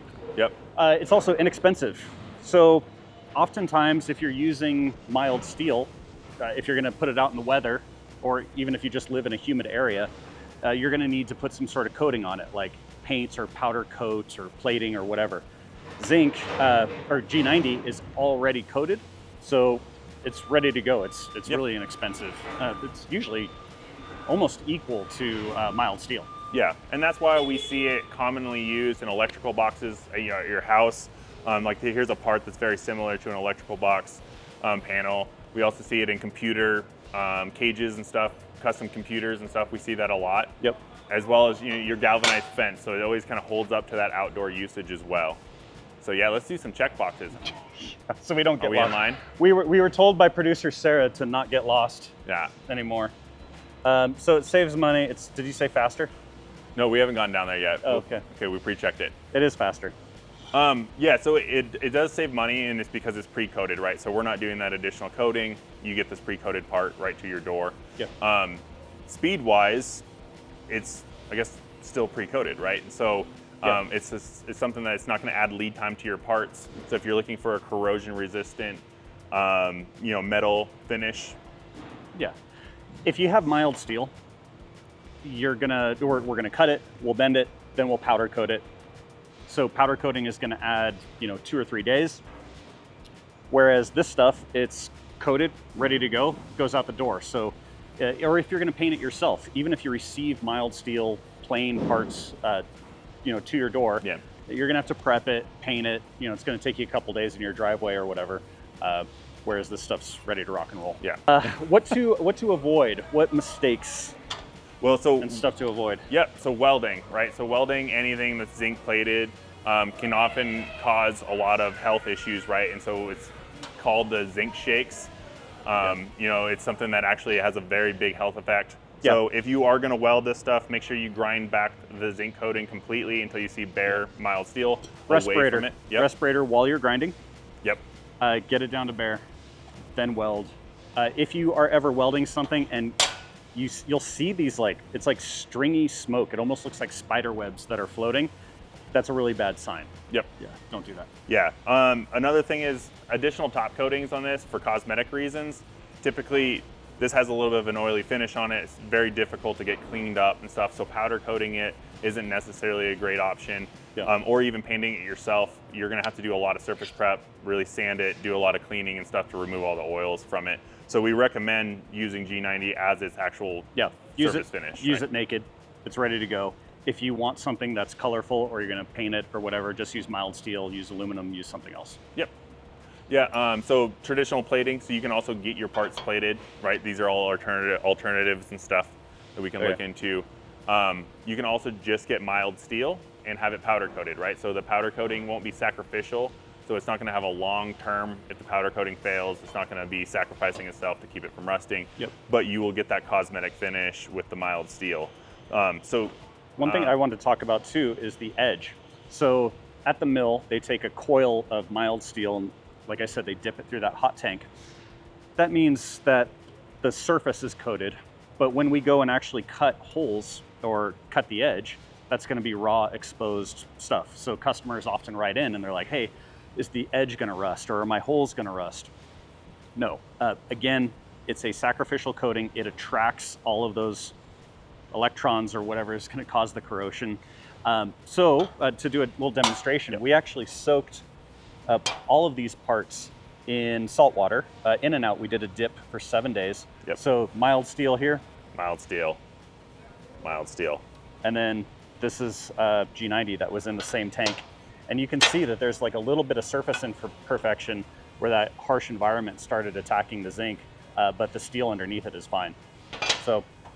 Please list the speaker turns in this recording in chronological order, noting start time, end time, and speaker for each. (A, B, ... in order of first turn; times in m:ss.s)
0:00.8-0:10.1 A
0:10.6-0:15.4 A
0:16.0-0:23.5 A
0:24.3-0:26.3 A
0:26.5-0:40.5 B
0:41.1-0:45.4 B
0:46.0-0:47.6 B
0:47.8-0:52.1 A
0:48.6-0:49.2 B
0:52.3-0:52.5 B
0:52.7-0:53.1 A
0:53.8-0:56.1 A
0:56.8-0:59.1 B
0:57.8-0:58.2 A
0:59.3-0:59.9 A
1:00.5-1:10.0 B
1:10.7-1:21.4 B
1:23.0-1:24.1 A
1:25.2-1:28.6 A
1:29.5-1:32.2 A
1:33.5-1:42.6 A
1:43.2-1:54.2 A
1:54.8-1:55.4 B
1:55.2-1:56.1 A
1:56.1-2:05.1 B
2:05.7-2:16.1 B
2:15.1-2:17.2 A
2:18.2-2:19.2 A
2:20.0-2:23.0 A
2:23.5-2:28.3 A
2:28.9-2:31.1 A
2:31.3-2:55.0 B
2:53.8-3:02.0 A
3:03.1-3:27.0 B
3:26.6-3:34.5 A
3:35.4-3:48.9 A
3:49.8-3:54.2 A
3:54.9-4:01.0 A
4:01.7-4:08.2 A
4:08.6-4:09.2 B
4:10.2-4:10.8 B
4:11.2-4:22.6 A
4:23.2-4:23.5 A